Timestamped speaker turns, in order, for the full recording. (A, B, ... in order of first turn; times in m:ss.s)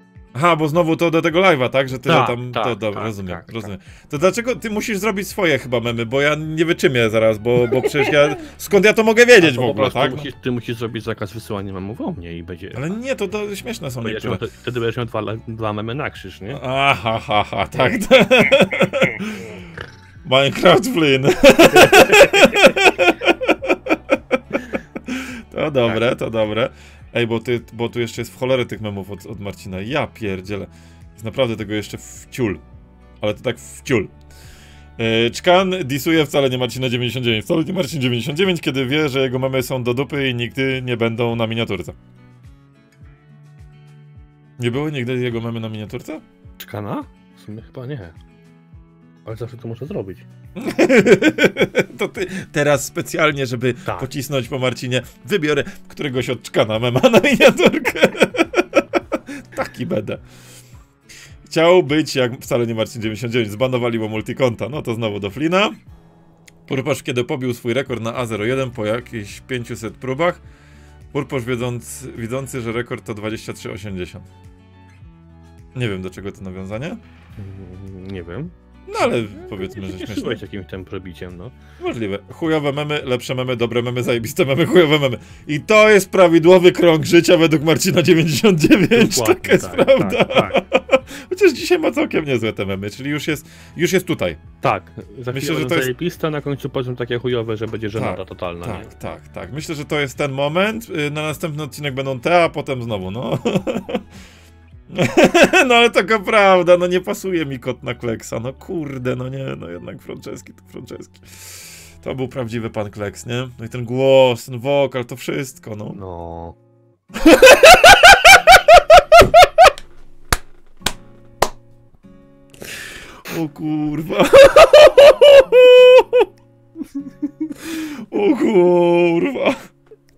0:00.3-0:10.3 A
0:02.0-0:03.7 B
0:07.8-0:08.1 B
0:09.4-0:12.9 B
0:12.8-0:14.4 A
0:14.0-0:16.6 B
0:16.5-0:19.5 A
0:17.7-0:18.0 B
0:20.2-0:24.0 A
0:21.7-0:22.9 B
0:25.1-0:32.6 A
0:33.2-0:34.1 A
0:35.0-0:42.0 A
0:44.6-0:46.2 A
0:46.6-0:48.2 B
0:49.2-0:50.2 B
0:50.6-1:00.2 A
0:53.8-0:54.1 B
1:01.5-1:05.8 A
1:06.7-1:10.4 A
1:11.1-1:14.3 A
1:15.8-1:17.0 A
1:17.4-1:21.5 B
1:18.9-1:20.4 A
1:21.8-1:34.4 A
1:28.9-1:30.6 B
1:34.6-1:38.9 B
1:35.3-1:35.9 A
1:38.0-1:44.0 A
1:44.9-1:56.0 A
1:55.9-1:56.6 B
2:03.3-2:06.3 A
2:07.6-2:09.7 A